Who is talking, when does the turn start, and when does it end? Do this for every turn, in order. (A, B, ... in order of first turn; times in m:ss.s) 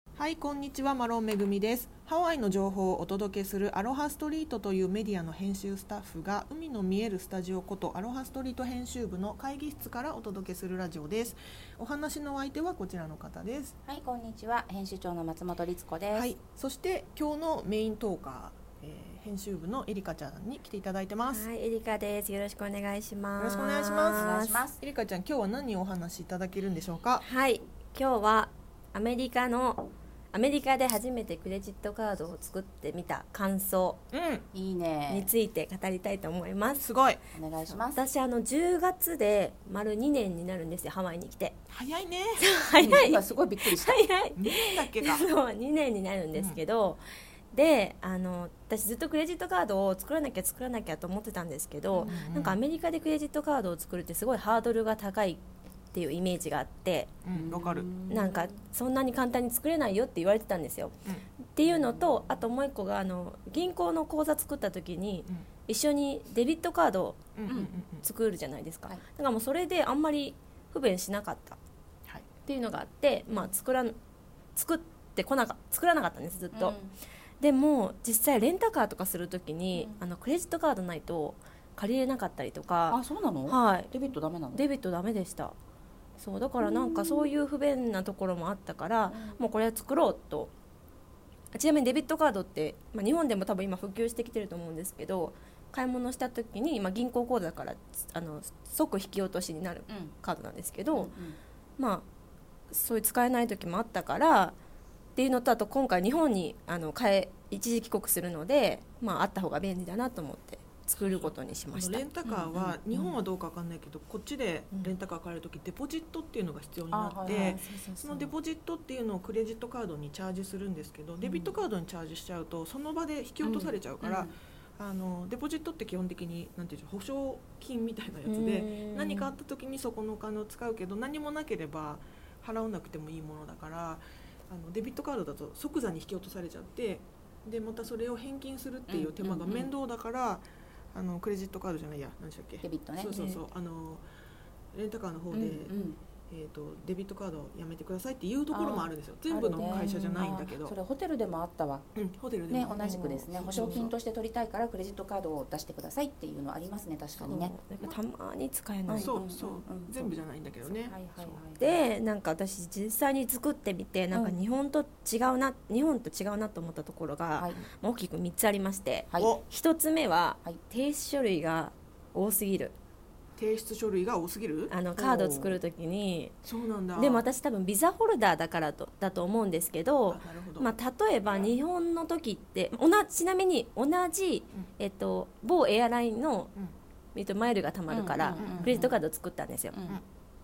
0:00.2-0:13.8 A
0:13.9-0:16.3 B
0:16.1-0:21.5 A
0:21.3-0:24.6 C
0:23.4-0:27.2 A
0:24.1-0:24.8 B
0:27.2-0:34.0 C
0:34.1-0:34.5 A
0:34.5-0:35.3 B
0:35.1-0:36.9 C
0:36.8-0:37.8 A
0:37.3-0:38.0 B
0:37.9-0:41.6 C
0:41.7-0:42.4 A
0:42.4-0:57.1 C
0:42.8-0:44.0 B
0:44.4-0:45.3 A
0:46.3-0:46.6 A
0:52.0-0:52.6 A
0:57.2-0:57.9 A
0:57.3-0:58.6 B
0:58.1-1:01.0 C
1:01.5-1:07.2 C
1:07.4-1:08.0 A
1:08.0-1:11.6 C
1:12.5-1:14.0 C
1:14.5-1:16.8 C
1:16.5-1:16.9 B
1:17.4-1:23.9 C
1:19.7-1:20.0 B
1:22.9-1:24.6 B
1:24.5-1:25.6 C
1:26.2-1:30.5 C
1:26.6-1:27.3 B
1:29.1-1:29.4 B
1:31.5-1:41.1 C
1:39.9-1:40.1 B
1:40.9-1:41.4 B
1:41.8-1:42.1 C
1:42.7-1:44.6 C
1:45.2-1:52.8 C
1:51.0-2:24.0 A
1:52.3-1:53.1 B
1:56.9-1:58.2 B
1:57.2-1:58.3 C
2:03.4-2:04.2 B
2:08.2-2:09.3 C
2:18.9-2:19.7 B
2:22.6-2:23.3 B
2:23.1-2:23.4 C
2:24.7-2:25.8 A
2:25.3-2:26.0 B
2:26.3-2:30.8 A
2:28.5-2:31.9 B
2:29.6-2:30.2 C
2:32.0-2:33.9 A
2:32.5-2:37.5 B
2:32.8-2:33.9 C
2:37.2-2:39.2 C
2:38.9-2:40.1 B
2:39.0-2:41.4 A
2:40.6-2:41.8 B
2:41.6-2:52.8 C
2:44.1-2:44.4 B
2:47.4-2:47.6 B
2:53.4-2:54.7 A
2:54.7-2:56.4 C
2:55.0-2:55.6 B
2:56.4-2:57.3 A
2:57.0-3:06.5 C
3:00.1-3:00.7 A
3:01.3-3:01.5 A
3:07.1-3:09.8 C
3:07.9-3:09.0 B
3:08.3-3:08.8 A
3:09.7-3:10.0 B